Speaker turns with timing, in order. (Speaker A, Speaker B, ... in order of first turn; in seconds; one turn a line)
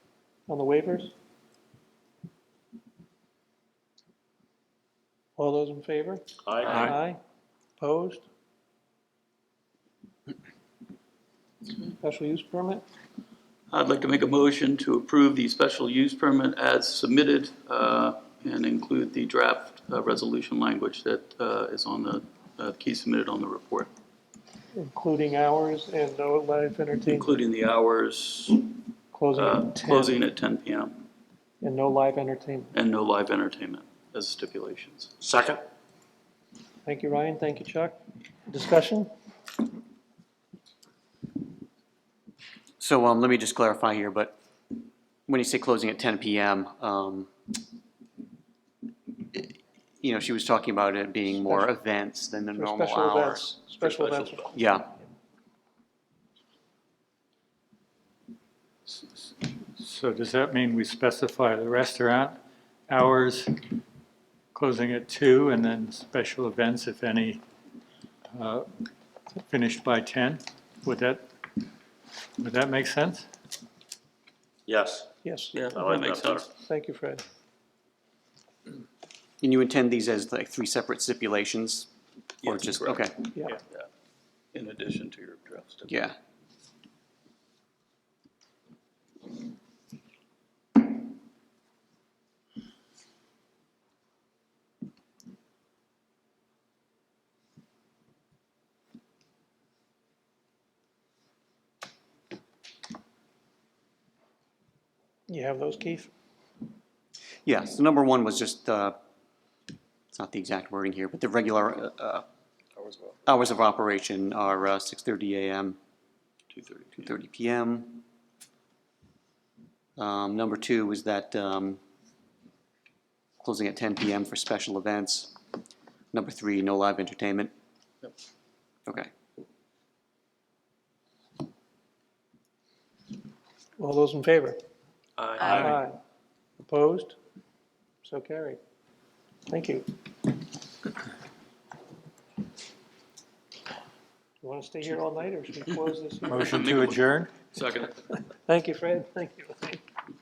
Speaker A: 0.5-1.1
Speaker A: 5.4-7.2
Speaker B: 6.5-6.8
Speaker A: 7.8-8.2
Speaker A: 11.8-12.8
Speaker C: 13.7-23.9
Speaker A: 24.7-27.4
Speaker C: 27.1-28.8
Speaker A: 29.1-30.2
Speaker C: 29.3-31.0
Speaker A: 31.6-32.7
Speaker C: 32.7-35.1
Speaker B: 35.2-35.6
Speaker A: 36.9-39.1
Speaker D: 42.8-44.4
Speaker D: 45.3-47.3
Speaker D: 49.3-53.5
Speaker A: 52.5-54.6
Speaker C: 53.8-54.5
Speaker D: 54.5-54.9
Speaker E: 58.9-62.4
Speaker E: 62.9-63.6
Speaker E: 64.5-67.4
Speaker E: 68.3-68.7
Speaker E: 69.4-71.2
Speaker E: 72.4-73.3
Speaker B: 74.7-75.1
Speaker A: 75.2-75.7
Speaker C: 75.5-76.5
Speaker B: 75.7-76.5
Speaker A: 76.5-77.2
Speaker D: 79.4-81.9
Speaker D: 82.4-83.2
Speaker C: 82.4-83.9
Speaker C: 84.5-86.0
Speaker D: 85.9-86.2
Speaker A: 105.3-106.1
Speaker D: 107.5-109.0
Speaker D: 110.1-112.2
Speaker C: 112.8-113.2
Speaker D: 113.3-115.8
Speaker C: 116.5-117.1
Speaker D: 117.0-118.0
Speaker D: 120.0-121.8
Speaker D: 123.4-125.3
Speaker D: 126.1-127.5
Speaker D: 128.9-129.1
Speaker A: 133.8-134.6
Speaker C: 135.2-135.8
Speaker A: 135.5-136.0
Speaker A: 136.6-137.2
Speaker A: 138.0-138.6
Speaker A: 139.5-139.9
Speaker A: 144.4-146.5
Speaker E: 146.3-147.4
Speaker C: 146.3-148.1
Speaker A: 148.5-149.8